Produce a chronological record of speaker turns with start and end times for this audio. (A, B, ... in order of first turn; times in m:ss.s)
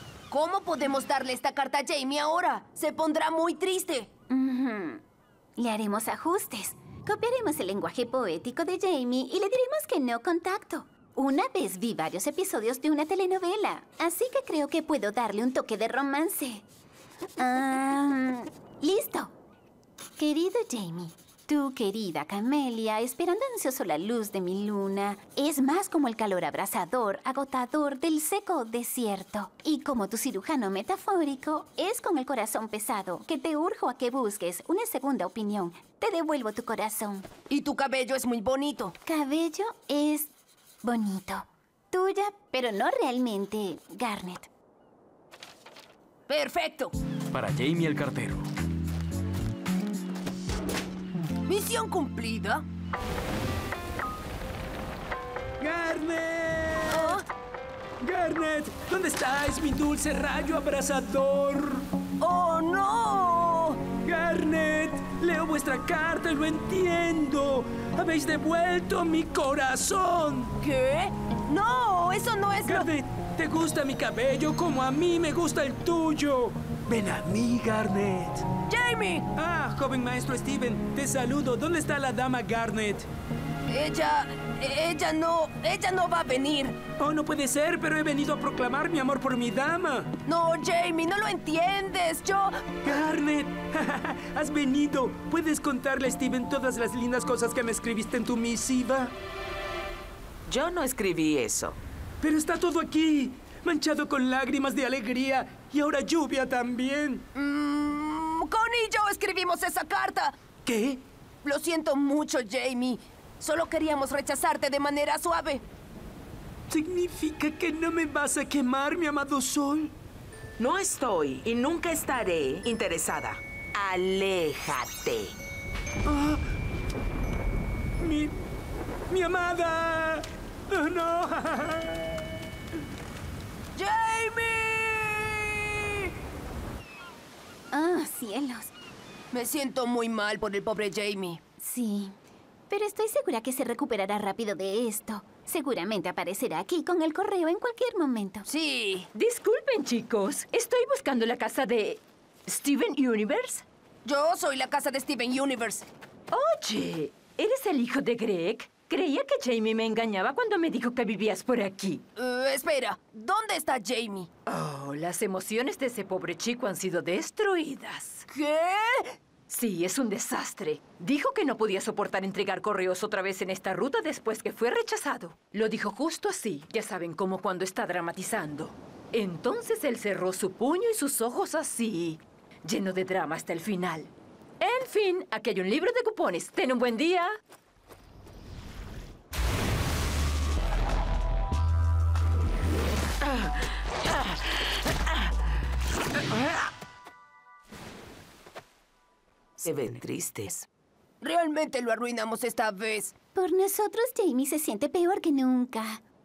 0:00.3-0:04.1 A
0:04.3-0:05.0 B
0:05.6-0:16.6 B
0:17.4-0:19.3 B
0:20.2-0:37.3 B
0:37.5-0:39.0 A
0:39.1-0:40.3 B
0:40.8-0:44.5 B
0:46.3-0:46.9 A
0:47.3-0:48.5 C
0:51.5-0:52.6 A
0:55.6-0:57.2 C
0:56.9-0:57.2 A
0:58.0-1:01.9 C
1:02.2-1:03.9 A
1:04.0-1:10.6 C
1:10.6-1:12.9 A
1:12.6-1:18.5 C
1:18.7-1:19.3 A
1:19.3-1:23.1 C
1:23.7-1:26.8 A
1:27.0-1:30.1 C
1:30.3-1:32.8 A
1:32.8-1:39.1 C
1:40.5-1:41.8 D
1:42.2-1:47.3 C
1:47.4-1:50.4 A
1:50.6-1:51.0 C
1:51.4-1:55.6 A
1:56.7-2:00.0 C
2:00.6-2:05.4 D
2:06.0-2:06.4 C
2:08.0-2:08.4 C
2:09.1-2:12.2 C
2:13.8-2:16.1 A
2:17.7-2:18.7 B
2:19.3-2:21.4 A
2:21.6-2:22.2 B
2:22.7-2:28.5 B
2:28.5-2:29.1 A
2:29.1-2:33.6 E
2:34.0-2:35.9 A
2:36.3-2:42.0 E
2:42.2-2:44.3 A
2:44.5-2:48.3 E
2:48.3-2:49.2 A
2:49.5-3:07.3 E
3:19.6-3:20.7 D
3:21.2-3:23.2 A
3:23.4-3:26.0 B